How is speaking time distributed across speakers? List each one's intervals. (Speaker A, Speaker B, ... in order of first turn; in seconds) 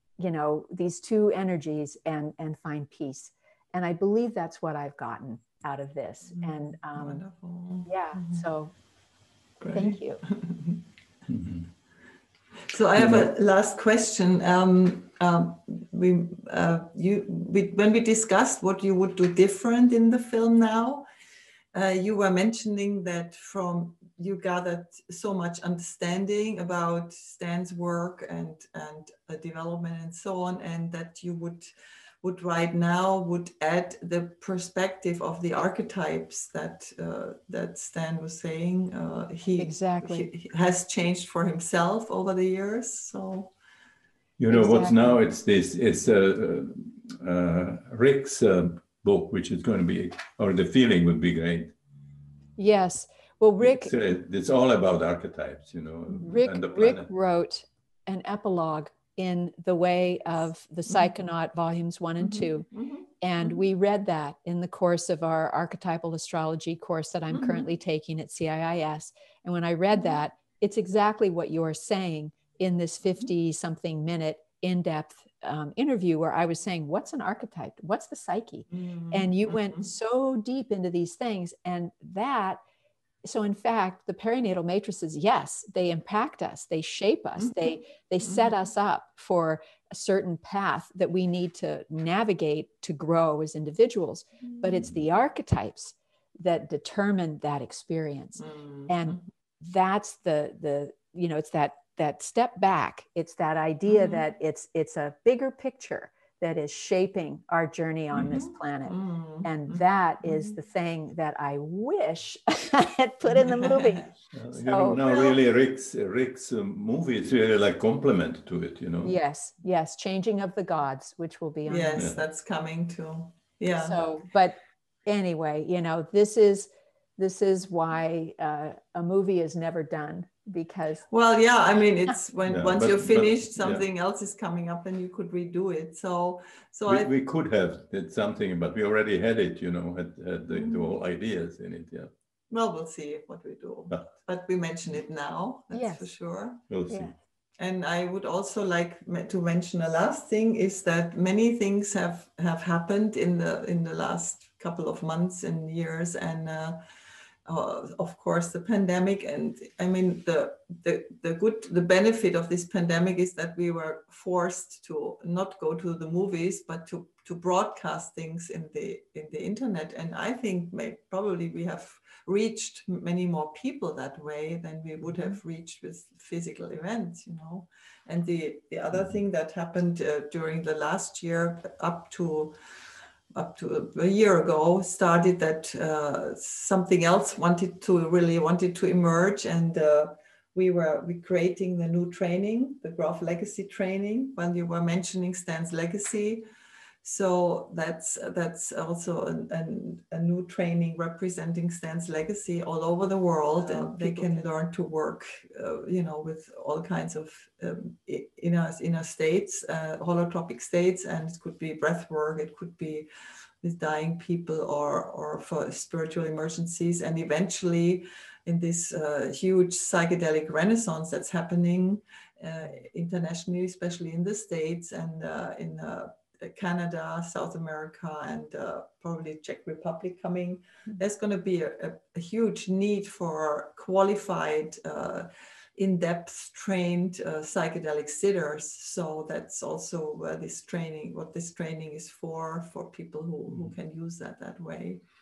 Speaker A: 0.2-7.2, 7.9-8.7, 9.7-10.2, 39.6-40.3, 44.5-45.2, 52.6-53.9, 56.2-62.7, 63.2-82.6, 83.2-115.0, 119.0-122.1, 123.8-131.1, 145.7-146.1, 203.6-204.5
Speaker B: 6.3-8.4, 9.6-10.8, 12.7-21.1, 21.7-31.7, 32.2-43.5, 62.2-63.6, 67.3-67.6, 78.7-79.8, 88.2-88.5, 94.6-94.9, 98.4-99.2, 103.9-104.2, 108.3-110.5, 113.3-114.0, 115.0-115.4, 121.7-124.0, 131.1-137.1, 140.5-141.0, 142.5-146.6, 147.6-156.8, 157.5-182.6, 183.3-196.5, 197.0-213.1, 213.6-245.0
Speaker C: 11.3-11.7, 13.0-13.3, 44.4-51.7, 53.6-57.1, 114.3-119.1, 122.0-122.2, 132.5-133.8, 136.9-142.1, 146.7-147.1